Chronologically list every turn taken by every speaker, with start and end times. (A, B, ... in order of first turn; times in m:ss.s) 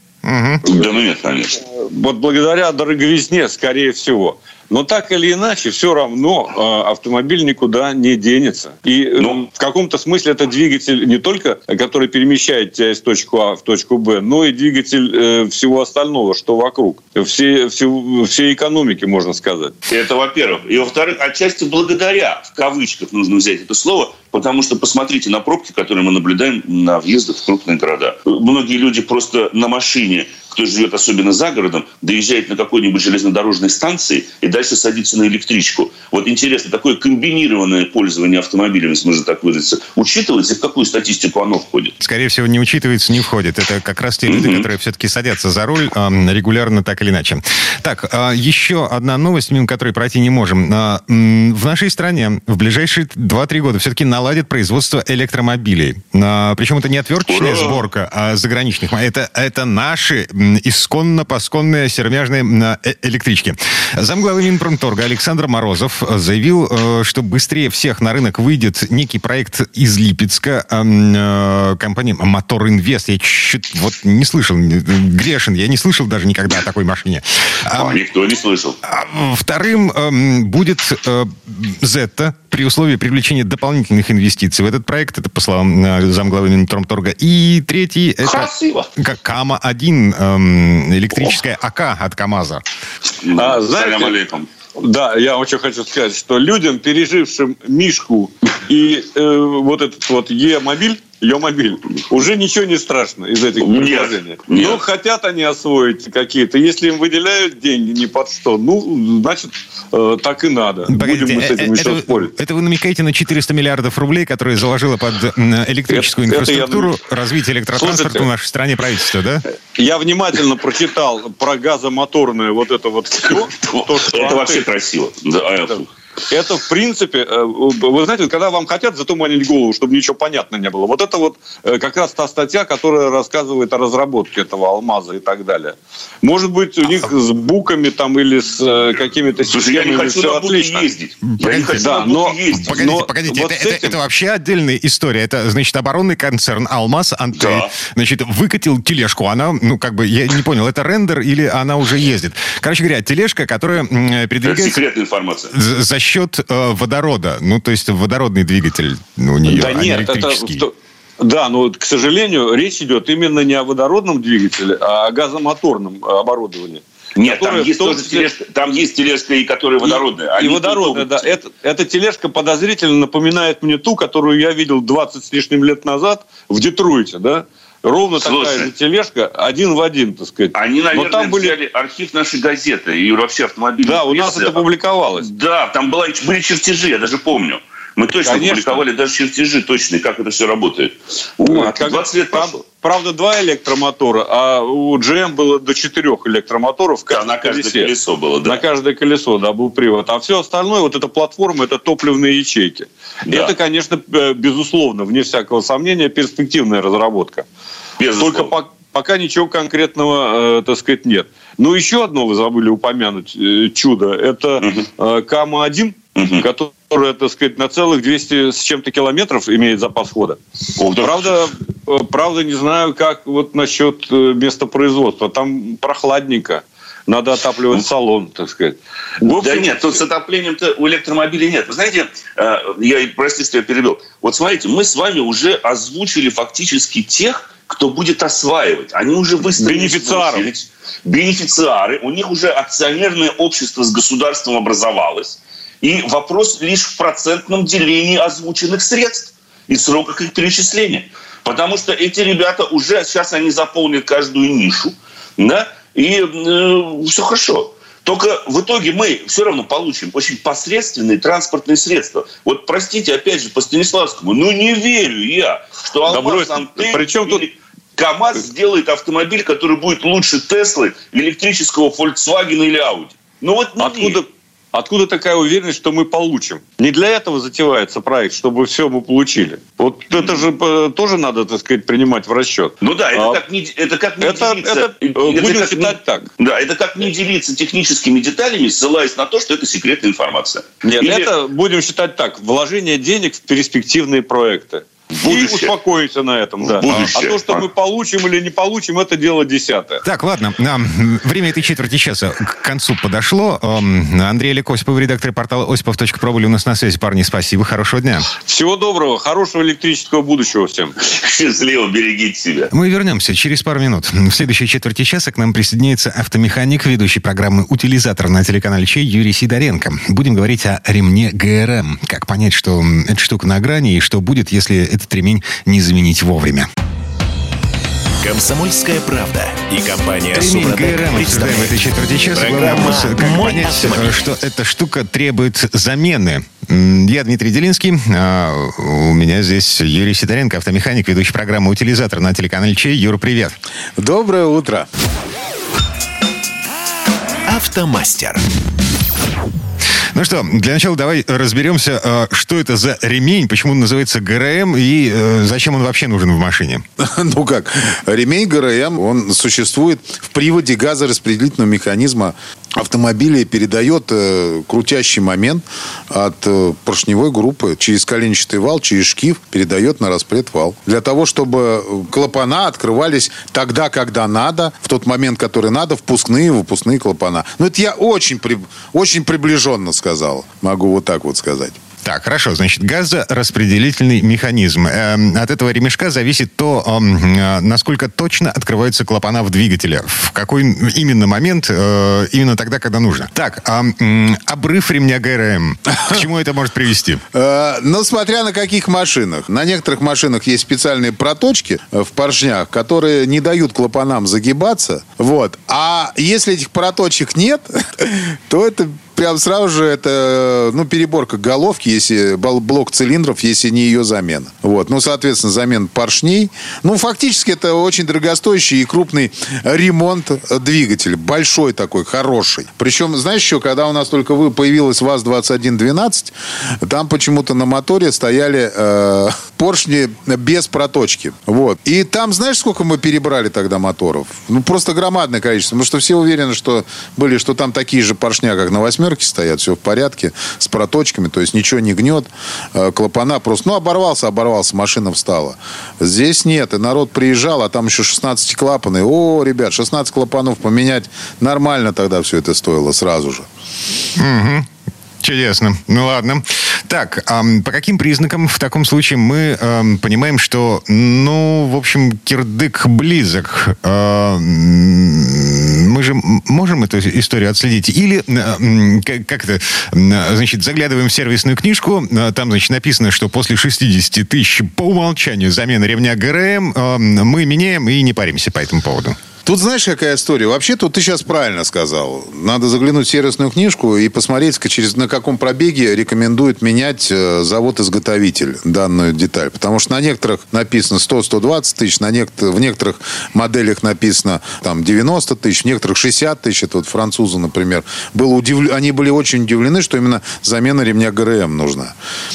0:00.2-0:00.6 A
0:00.7-0:01.6 B
0:01.7-0:19.7 C
0:19.9-0:41.9 B
0:42.0-1:18.0 A
0:44.3-0:44.7 B
0:57.3-0:57.8 B
1:17.7-1:18.8 B
1:18.8-1:32.6 A
1:28.2-1:28.9 B
1:33.2-1:34.5 B
1:33.4-1:34.2 C
1:34.8-1:52.3 C
1:43.6-1:44.8 B
1:50.9-1:59.4 A
1:55.9-1:57.0 C
1:57.8-1:58.3 C
1:59.8-2:04.7 C
2:03.3-2:05.9 B
2:05.7-2:20.9 C
2:19.5-2:23.0 B
2:21.3-2:21.9 A
2:21.8-2:24.0 C
2:22.6-2:34.8 A
2:27.4-2:27.7 B
2:34.4-2:35.5 B
2:35.5-2:40.6 A
2:39.5-2:48.3 C
2:47.2-2:51.3 B
2:49.8-3:01.6 C
2:58.2-2:58.7 B
3:00.5-3:04.6 B
3:03.8-3:05.3 C
3:05.2-3:12.6 B
3:08.2-3:08.8 C
3:11.4-3:17.9 C
3:17.1-3:18.6 B
3:18.4-3:27.5 C
3:23.3-3:23.5 B
3:28.0-3:28.5 B
3:28.2-3:40.4 C
3:34.6-3:34.9 B
3:36.2-3:36.4 B
3:40.8-3:41.3 B
3:41.0-3:50.0 C
3:49.2-4:34.2 B
3:59.6-4:00.5 C
4:26.1-4:27.4 C
4:33.8-4:43.4 C
4:42.8-4:51.3 B
4:44.2-4:46.3 C
4:50.8-5:00.0 C
4:55.1-4:55.7 B
4:56.6-4:57.7 B
4:56.9-4:57.1 A
5:00.0-5:08.3 A
5:08.4-5:11.0 C
5:11.0-5:12.7 B
5:12.7-5:26.7 A
5:28.2-5:34.3 D
5:30.3-5:43.6 A
5:44.0-5:44.9 E
5:47.5-5:48.4 D
5:50.1-5:56.8 A
5:57.0-6:21.8 E
6:22.0-6:37.2 A
6:37.3-7:33.5 E
7:34.2-7:34.7 A
7:35.2-7:59.2 A
7:59.4-8:22.0 E